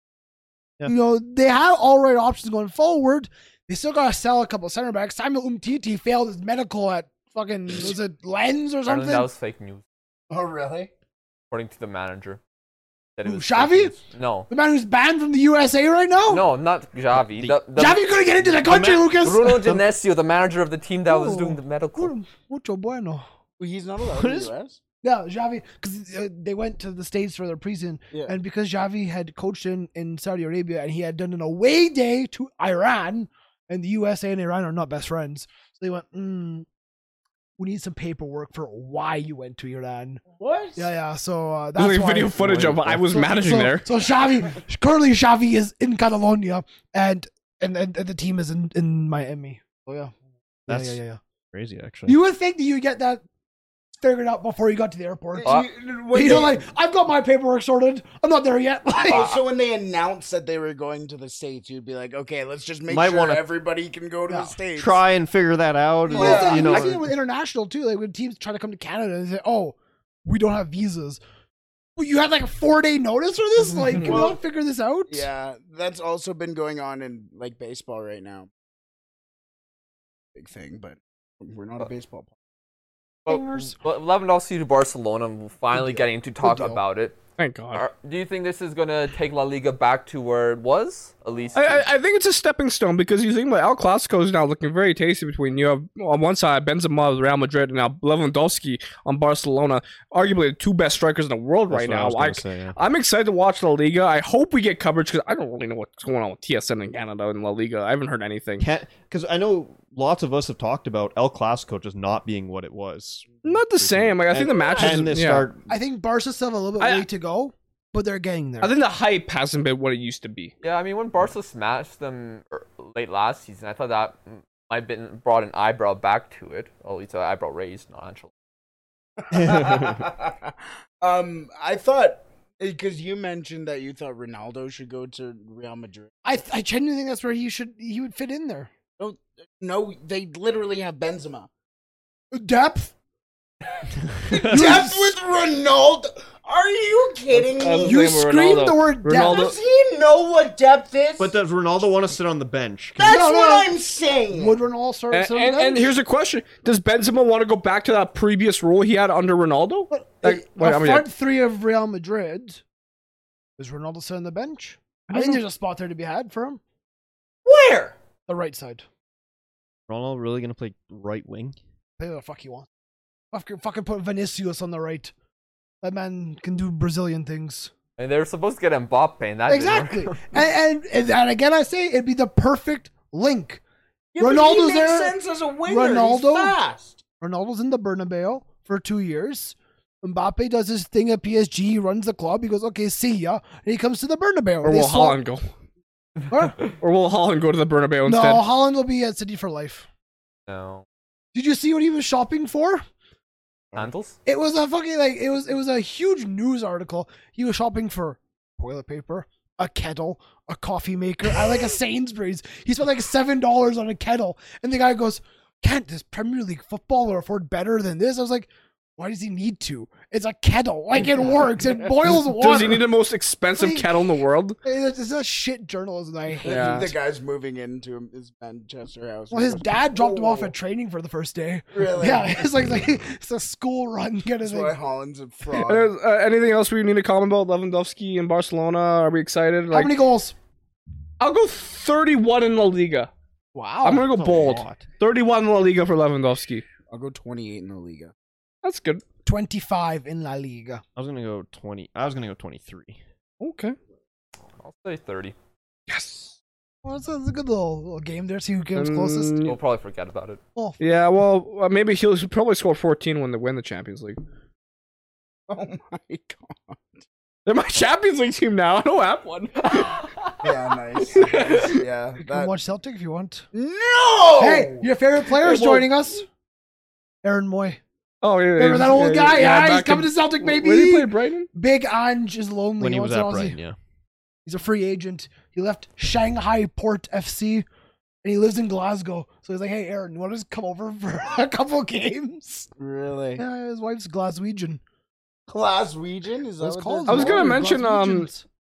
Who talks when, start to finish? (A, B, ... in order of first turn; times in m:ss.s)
0:00.8-0:09.3 A
0:08.8-0:09.8 B
0:10.3-0:10.9 C
0:11.5-0:12.4 B
0:13.2-0:14.5 B
0:13.2-0:13.9 A
0:14.5-0:16.5 A
0:16.3-0:18.0 B
0:17.2-0:17.6 D
0:17.8-0:19.5 A
0:18.5-0:19.8 D
0:19.2-0:22.1 B
0:21.1-0:23.2 A
0:23.6-0:24.8 C
0:25.0-0:36.6 A
0:37.6-0:40.2 A
0:40.3-0:40.9 C
0:40.8-0:50.1 A
0:41.8-0:43.8 E
0:42.4-0:43.7 D
0:50.7-0:51.0 D
0:50.7-0:51.2 A
0:51.5-0:52.2 D
0:52.0-0:53.2 A
0:54.0-0:59.3 A
0:55.4-0:56.6 C
0:59.0-1:05.0 C
0:59.1-0:59.4 B
1:02.9-1:03.4 D
1:04.3-1:04.5 A
1:04.8-1:07.1 D
1:06.1-1:06.9 C
1:06.1-1:11.2 A
1:12.0-1:15.3 A
1:13.6-1:14.4 C
1:15.1-1:18.5 C
1:20.3-1:22.3 C
1:23.2-1:27.2 B
1:23.3-1:23.8 A
1:25.7-1:26.8 A
1:27.4-1:27.8 E
1:27.7-1:31.8 B
1:31.5-1:48.6 E
1:41.7-1:42.8 D
1:48.6-1:55.7 D
1:53.4-1:55.5 E
1:55.7-1:58.7 A
1:56.8-1:57.0 E
1:58.6-2:00.5 E
2:00.6-2:08.3 B
2:09.2-2:16.1 C
2:09.3-2:10.0 D
2:16.2-2:18.7 A
2:19.0-2:21.5 C
2:22.3-2:22.9 A
2:24.3-2:28.1 C
2:24.4-2:25.1 A
2:27.3-2:29.5 E
2:27.8-2:29.5 A
2:29.1-2:31.3 C
2:31.2-2:33.2 D
2:33.0-2:34.6 C
2:33.0-2:33.7 A
2:34.3-2:35.9 A
2:35.1-2:41.1 E
2:39.9-2:42.6 A
2:43.6-2:46.6 A
2:45.1-2:45.4 E
2:47.4-2:48.0 C
2:48.3-2:48.8 A
2:49.9-2:51.6 D
2:52.0-2:52.7 A
2:53.3-2:55.1 A
2:55.8-2:57.7 A
2:58.0-3:00.3 B
2:59.5-3:03.6 A
3:04.1-3:07.0 C
3:04.2-3:06.6 A
3:07.2-3:15.2 A
3:14.6-3:15.5 E
3:16.3-3:16.6 A
3:16.8-3:18.4 E
3:18.0-3:19.9 A
3:20.5-3:20.8 B
3:21.3-3:22.8 A
3:23.7-3:24.2 B
3:24.2-3:42.9 A
3:42.1-3:44.6 E
3:43.6-3:43.9 A
3:44.6-3:46.8 A
3:46.3-3:50.5 C
3:46.4-3:46.9 E
3:49.3-3:54.8 A
3:51.7-3:52.6 C
3:54.4-3:55.9 C
3:55.6-3:59.9 E
3:59.7-4:00.3 A
4:01.2-4:03.1 E
4:03.5-4:04.0 A
4:03.8-4:06.6 E
4:04.0-4:04.8 D
4:06.9-4:08.1 C
4:08.6-4:09.0 E
4:09.2-4:10.8 A
4:11.0-4:13.0 D
4:13.4-4:13.8 E
4:14.6-4:15.3 B
4:15.9-4:16.3 E
4:16.8-4:19.4 A
4:18.8-4:19.6 E
4:19.4-4:20.4 B
4:20.8-4:24.2 E
4:25.5-4:26.8 C
4:27.4-4:29.9 E
4:30.4-4:32.5 C
4:31.1-4:31.8 E
4:32.2-4:33.4 A
4:33.5-4:34.9 C
4:34.4-4:36.2 A
4:35.4-4:35.9 E
4:37.2-4:37.8 A
4:38.2-4:41.5 E
4:38.6-4:43.6 A
4:42.8-4:43.8 D
4:44.4-4:47.6 A
4:48.2-4:52.7 A
4:52.8-4:53.4 C
4:53.4-4:54.8 A
4:55.5-4:57.5 C
4:56.6-4:58.4 A
4:57.1-4:58.3 E